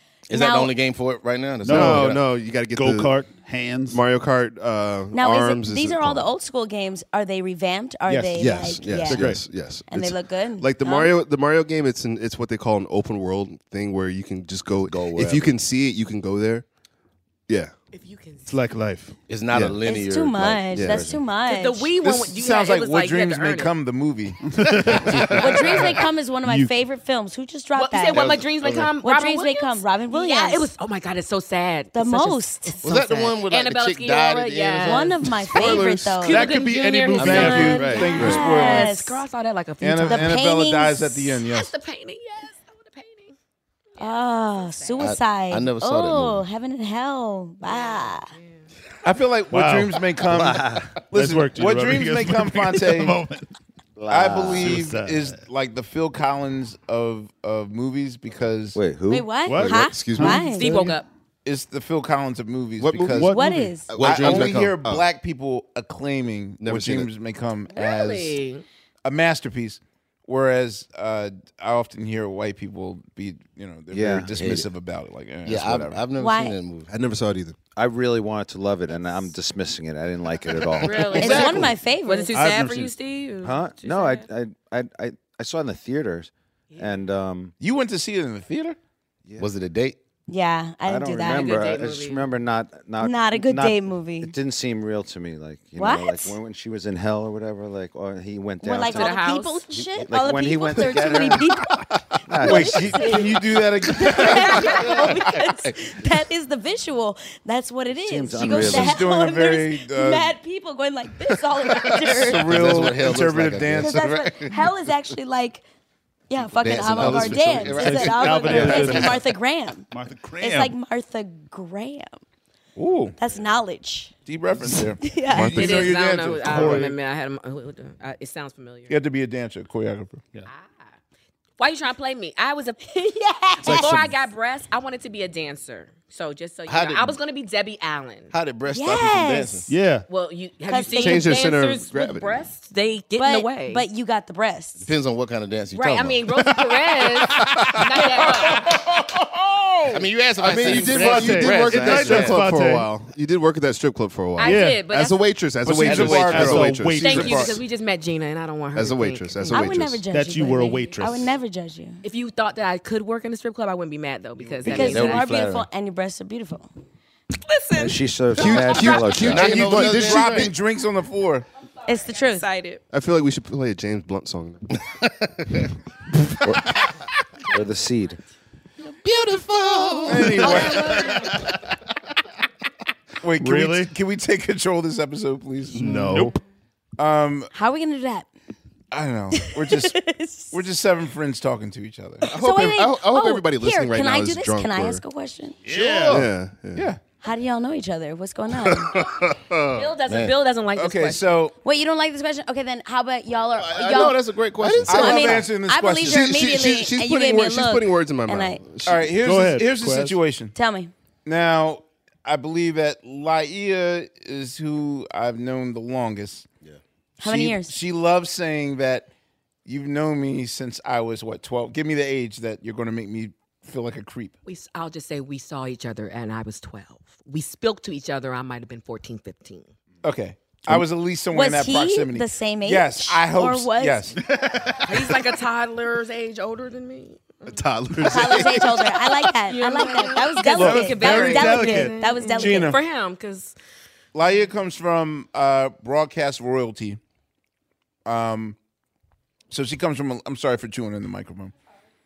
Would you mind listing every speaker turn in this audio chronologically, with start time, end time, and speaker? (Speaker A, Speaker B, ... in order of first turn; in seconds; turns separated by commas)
Speaker A: 0.3-2.2, Speaker B: 0.3-0.7, Speaker C: 1.6-4.0, Speaker D: 1.7-3.1, Speaker D: 3.9-6.3, Speaker B: 5.1-9.4, Speaker C: 8.1-9.4, Speaker D: 8.4-16.7, Speaker B: 9.9-11.1, Speaker A: 14.9-15.5, Speaker E: 17.9-18.7, Speaker C: 18.5-19.2, Speaker A: 19.3-21.2, Speaker D: 19.5-19.8, Speaker B: 19.8-21.9, Speaker D: 20.7-21.1, Speaker E: 21.4-23.7, Speaker F: 22.0-24.4, Speaker C: 24.5-26.8, Speaker D: 25.1-25.8, Speaker B: 25.4-28.5, Speaker E: 27.8-40.4, Speaker D: 28.1-28.9, Speaker B: 29.0-30.7, Speaker B: 31.9-32.8, Speaker A: 32.8-35.1, Speaker B: 34.8-36.6, Speaker D: 35.3-36.6, Speaker C: 36.2-38.0, Speaker F: 37.1-39.0, Speaker D: 37.1-38.5, Speaker B: 37.3-39.2, Speaker F: 39.8-41.7, Speaker B: 40.0-41.4, Speaker E: 41.5-43.4, Speaker E: 44.0-45.1, Speaker B: 44.0-48.3, Speaker A: 45.0-46.4, Speaker E: 47.6-48.7, Speaker F: 49.0-53.2, Speaker C: 49.5-50.0, Speaker G: 50.3-50.9, Speaker C: 51.1-53.5, Speaker G: 54.0-54.8, Speaker F: 54.1-58.8, Speaker C: 54.5-55.4, Speaker G: 58.7-59.4, Speaker B: 59.1-60.7, Speaker C: 59.5-61.0, Speaker D: 59.6-60.6, Speaker E: 60.5-61.1, Speaker F: 61.5-63.3, Speaker D: 62.8-63.3, Speaker C: 63.1-63.8, Speaker B: 63.2-63.9, Speaker D: 63.9-65.0, Speaker A: 64.0-64.8, Speaker F: 64.0-68.4, Speaker D: 66.6-67.1, Speaker E: 67.7-68.7, Speaker F: 69.0-76.0, Speaker G: 73.9-74.3, Speaker A: 74.3-74.7, Speaker A: 75.5-76.9, Speaker B: 76.2-76.6, Speaker D: 76.9-77.6, Speaker G: 77.8-81.7, Speaker E: 80.8-84.3, Speaker B: 81.2-82.6, Speaker F: 81.2-81.6, Speaker C: 82.3-83.0, Speaker G: 83.4-87.5, Speaker E: 86.7-87.1, Speaker F: 87.6-88.8, Speaker A: 89.4-90.0, Speaker B: 90.3-91.7, Speaker G: 90.9-101.6, Speaker E: 91.3-92.3, Speaker B: 93.0-94.3, Speaker B: 95.8-96.4, Speaker B: 98.6-112.5, Speaker E: 98.8-99.8, Speaker G: 102.3-103.2, Speaker F: 102.4-105.0, Speaker G: 107.9-109.1, Speaker F: 108.4-110.3, Speaker F: 112.0-114.2, Speaker A: 112.2-114.6, Speaker B: 113.8-115.6, Speaker B: 116.3-119.9, Speaker A: 116.4-119.1, Speaker D: 117.0-117.8, Speaker C: 117.7-119.3, Speaker C: 119.9-120.7, Speaker B: 120.4-122.2, Speaker F: 122.8-123.2, Speaker B: 123.2-124.1, Speaker F: 124.3-127.0, Speaker B: 125.0-125.7, Speaker D: 125.3-126.0, Speaker E: 125.6-128.9, Speaker C: 126.4-127.0, Speaker F: 128.9-130.2, Speaker E: 130.5-130.9, Speaker E: 131.6-132.8, Speaker B: 132.9-134.1, Speaker E: 133.6-138.3, Speaker C: 133.6-134.2, Speaker A: 136.7-137.2, Speaker A: 138.3-139.7, Speaker B: 138.7-139.7, Speaker C: 139.7-140.1, Speaker E: 140.1-143.9, Speaker B: 140.7-141.3, Speaker D: 141.0-142.4, Speaker B: 143.2-144.9, Speaker A: 144.8-146.3, Speaker E: 145.7-148.8, Speaker D: 147.9-148.2, Speaker A: 149.9-152.4, Speaker D: 150.4-157.5, Speaker C: 150.5-152.9, Speaker E: 154.4-155.3, Speaker C: 154.4-154.8, Speaker F: 155.6-157.6, Speaker C: 155.8-157.6, Speaker E: 157.0-159.6, Speaker D: 158.7-160.1, Speaker B: 159.5-162.0, Speaker C: 160.1-161.3, Speaker E: 162.0-165.3, Speaker F: 164.7-165.0, Speaker B: 164.7-166.7, Speaker A: 164.8-165.7, Speaker E: 167.4-168.0, Speaker G: 167.8-169.8, Speaker F: 168.4-171.5, Speaker D: 168.4-170.5, Speaker E: 168.5-168.9, Speaker A: 169.1-170.5, Speaker B: 171.9-172.5, Speaker E: 172.1-172.8, Speaker D: 172.9-174.7, Speaker G: 177.5-178.2, Speaker D: 179.1-181.2, Speaker A: 179.6-180.3, Speaker F: 180.1-181.2, Speaker C: 180.1-180.9, Speaker E: 180.5-181.3, Speaker F: 183.2-186.3, Speaker C: 183.4-183.9, Speaker D: 185.7-186.4, Speaker C: 185.8-186.4, Speaker F: 187.0-187.5, Speaker B: 187.5-188.3, Speaker F: 188.9-190.0, Speaker B: 189.3-190.6, Speaker F: 190.5-192.3, Speaker B: 192.2-195.6, Speaker D: 192.3-195.0, Speaker C: 195.7-196.3, Speaker D: 195.7-196.9, Speaker F: 196.7-197.0, Speaker B: 197.2-199.0, Speaker D: 198.6-199.9, Speaker E: 199.8-201.3, Speaker A: 200.1-200.4, Speaker F: 200.8-201.6, Speaker B: 201.6-204.2, Speaker D: 203.6-205.5, Speaker A: 203.6-205.1, Speaker F: 204.9-206.3, Speaker B: 204.9-208.6, Speaker D: 206.0-209.1, Speaker F: 208.9-210.5, Speaker C: 209.1-210.2, Speaker B: 210.6-210.9, Speaker F: 211.2-216.4, Speaker B: 217.2-217.7, Speaker F: 217.2-219.1, Speaker F: 219.7-224.3, Speaker E: 224.4-229.7, Speaker F: 230.0-234.2, Speaker B: 231.3-234.1, Speaker C: 234.3-235.0, Speaker E: 234.8-237.6, Speaker D: 237.4-239.0, Speaker B: 238.0-242.8, Speaker E: 239.4-243.6, Speaker C: 240.6-242.1, Speaker F: 240.6-241.3, Speaker F: 242.4-242.8, Speaker F: 244.1-247.0, Speaker F: 248.1-248.6, Speaker F: 249.5-251.5